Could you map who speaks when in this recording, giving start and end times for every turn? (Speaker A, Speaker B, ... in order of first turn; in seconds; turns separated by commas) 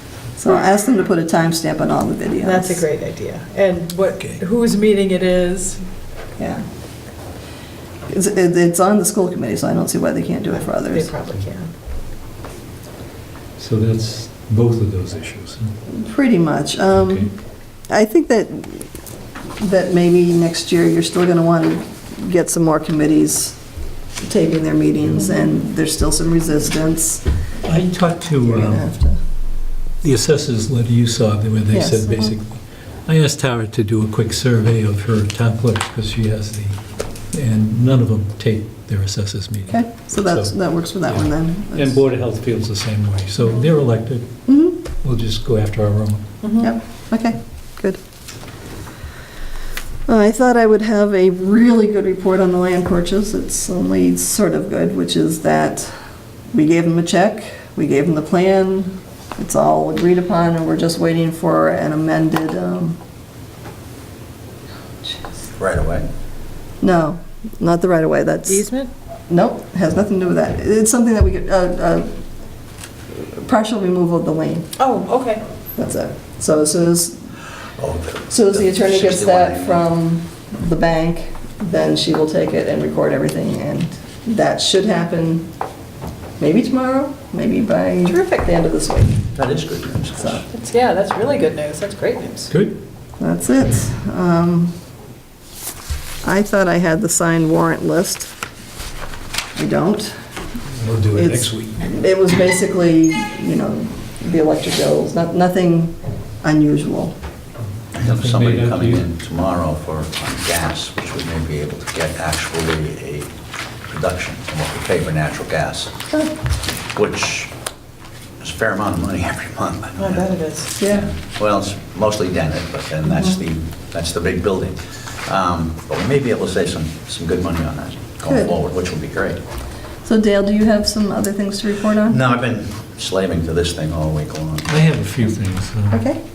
Speaker A: 0.3-2.9, Speaker B: 2.4-5.8, Speaker A: 6.4-6.6, Speaker A: 8.1-11.1, Speaker B: 10.8-11.7, Speaker C: 13.6-15.7, Speaker A: 15.9-17.3, Speaker C: 16.9-17.3, Speaker A: 17.9-18.9, Speaker A: 19.6-23.6, Speaker A: 24.2-27.2, Speaker C: 27.6-28.8, Speaker A: 28.4-29.2, Speaker C: 30.0-44.3, Speaker A: 31.7-32.3, Speaker A: 39.7-42.0, Speaker A: 44.5-44.8, Speaker C: 44.9-46.2, Speaker B: 46.4-46.7, Speaker A: 46.6-48.0, Speaker A: 50.1-55.9, Speaker A: 56.5-63.0, Speaker D: 65.5-66.0, Speaker A: 66.8-68.7, Speaker B: 68.5-68.9, Speaker A: 69.3-72.2, Speaker A: 73.1-74.7, Speaker B: 74.8-75.4, Speaker A: 75.8-77.2, Speaker D: 77.8-79.8, Speaker A: 78.3-85.5, Speaker A: 86.4-89.3, Speaker B: 88.0-88.5, Speaker D: 89.3-90.4, Speaker A: 90.2-90.4, Speaker B: 90.5-92.5, Speaker C: 92.5-92.8, Speaker A: 93.2-94.8, Speaker A: 96.2-98.3, Speaker A: 99.5-100.2, Speaker C: 100.7-101.8, Speaker A: 101.1-107.1, Speaker D: 107.9-113.3, Speaker C: 107.9-109.0, Speaker D: 113.9-115.9, Speaker D: 116.9-117.5, Speaker D: 118.4-129.4, Speaker B: 120.0-120.8, Speaker A: 120.8-121.1, Speaker A: 123.1-123.4, Speaker A: 128.2-128.6, Speaker A: 130.0-132.2, Speaker D: 132.1-134.8, Speaker C: 134.7-136.1, Speaker A: 135.9-136.2